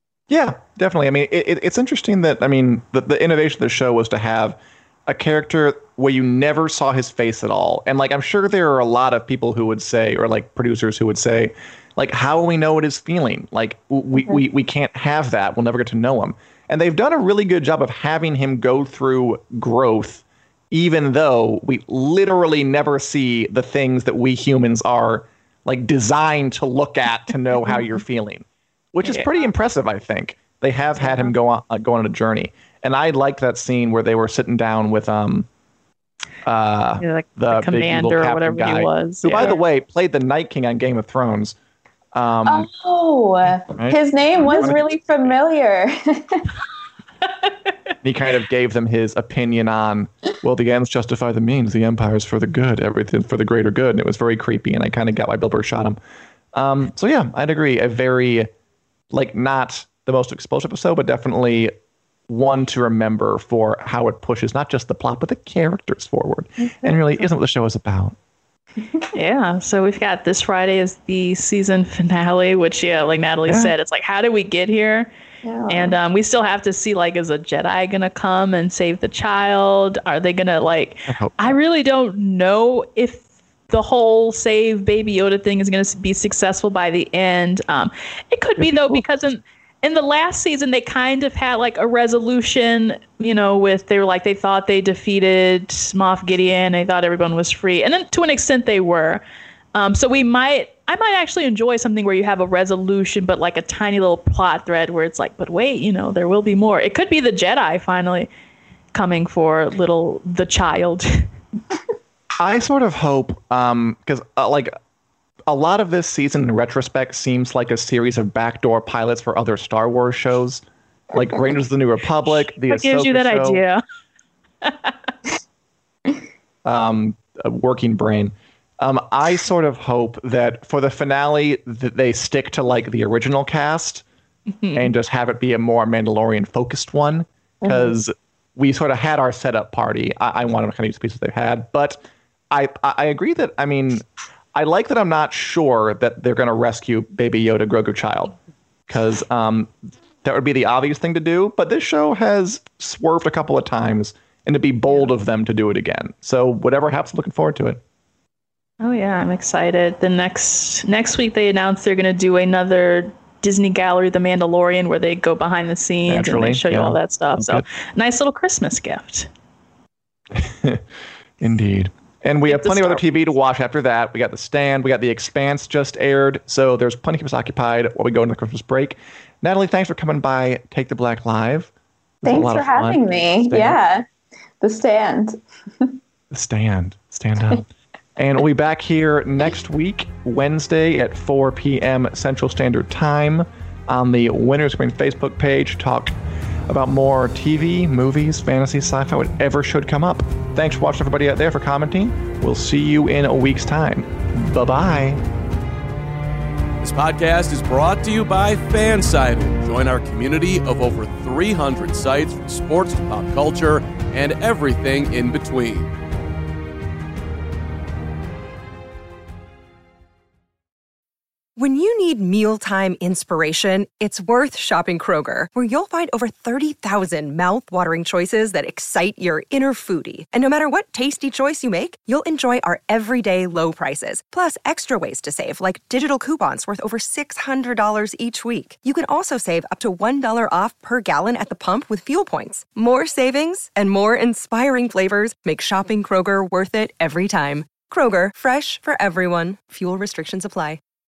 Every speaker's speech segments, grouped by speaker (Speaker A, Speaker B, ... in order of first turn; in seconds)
Speaker A: 0.3-35.5, 36.4-41.6, 42.1-42.7, 43.5-44.8, 48.0-56.0, 56.5-58.5, 59.1-61.7, 62.3-68.2, 81.1-81.6, 88.6-89.0, 112.4-114.7, 115.5-123.6, 126.7-134.0, 134.8-142.0, 142.5-144.0, 144.6-148.3, 148.9-149.7, 150.2-157.8, 166.1-167.7, 170.3-170.8, 171.4-181.7, 182.2-183.8, 186.3-187.6, 188.2-196.1, 196.7-205.2
Speaker B: 29.0-29.3, 31.0-31.3, 37.0-39.6, 66.9-67.2, 69.1-75.1, 75.7-99.2, 99.7-108.3, 108.9-111.3, 122.6-123.8, 124.6-125.1, 134.6-134.9, 158.8-169.3, 172.5-173.0
Speaker C: 42.5-46.5, 75.4-76.0, 137.6-137.9, 182.2-184.1, 184.6-185.9
Speaker D: 206.8-215.9
Speaker E: 221.6-250.8